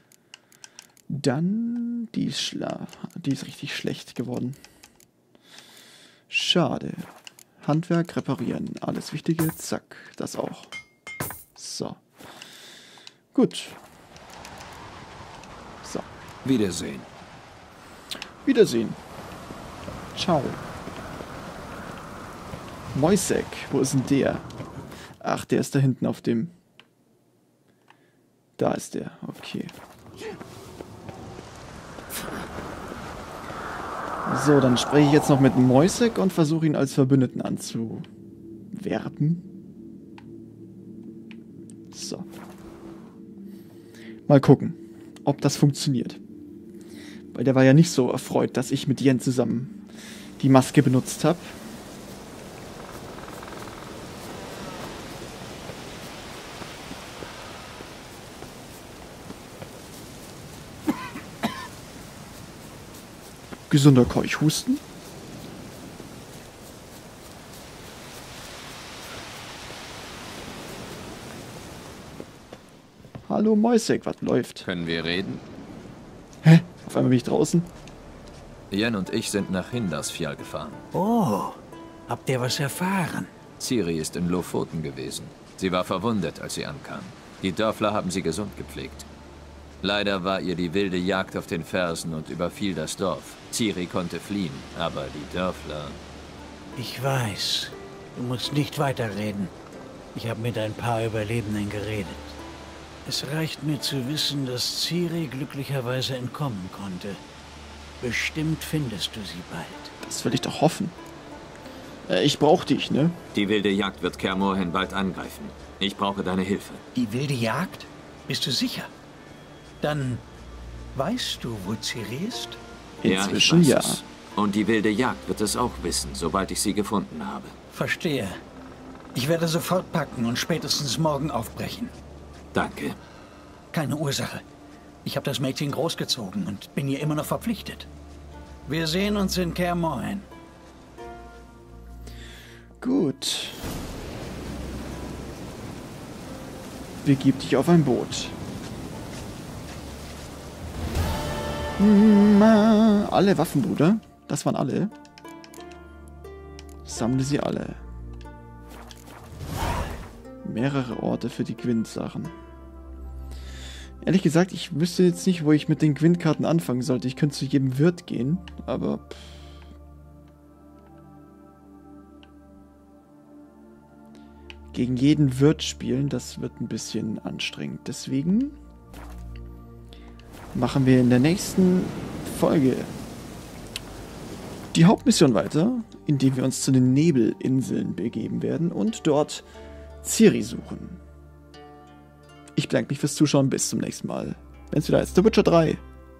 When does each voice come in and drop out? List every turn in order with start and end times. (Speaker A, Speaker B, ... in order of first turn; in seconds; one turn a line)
Speaker A: 1.1-4.6
Speaker A: 6.3-7.1
Speaker A: 7.6-10.7
Speaker A: 11.5-12.0
Speaker A: 13.3-13.8
Speaker B: 16.4-17.1
Speaker A: 18.4-19.0
Speaker A: 20.1-20.6
Speaker A: 22.9-24.5
Speaker A: 25.2-26.5
Speaker A: 28.6-29.7
Speaker A: 34.2-38.0
Speaker A: 38.7-39.4
Speaker A: 41.9-42.3
Speaker A: 44.3-46.2
Speaker A: 47.3-49.7
Speaker A: 50.4-51.5
Speaker A: 63.7-64.8
Speaker A: 73.2-74.7
Speaker B: 74.6-75.4
Speaker A: 76.4-77.7
Speaker B: 78.7-80.8
Speaker C: 80.9-83.3
Speaker B: 83.6-89.0
Speaker B: 89.8-96.0
Speaker C: 96.8-99.5
Speaker C: 100.1-102.4
Speaker C: 103.0-107.2
Speaker C: 108.0-109.9
Speaker A: 110.0-110.9
Speaker A: 112.0-113.2
Speaker B: 113.3-116.8
Speaker C: 116.9-118.9
Speaker C: 119.8-120.2
Speaker C: 120.9-122.6
Speaker A: 123.0-124.0
Speaker B: 123.0-127.5
Speaker C: 127.7-128.4
Speaker C: 129.1-131.9
Speaker B: 132.5-133.0
Speaker C: 133.7-134.4
Speaker C: 135.0-137.9
Speaker C: 138.7-140.2
Speaker A: 142.8-143.7
Speaker A: 147.0-148.3
Speaker A: 151.8-154.9
Speaker A: 156.8-157.8
Speaker A: 160.4-162.3
Speaker A: 164.0-169.6
Speaker A: 174.7-178.6
Speaker A: 180.5-182.9
Speaker A: 184.7-189.4
Speaker A: 190.0-191.0
Speaker A: 192.5-195.8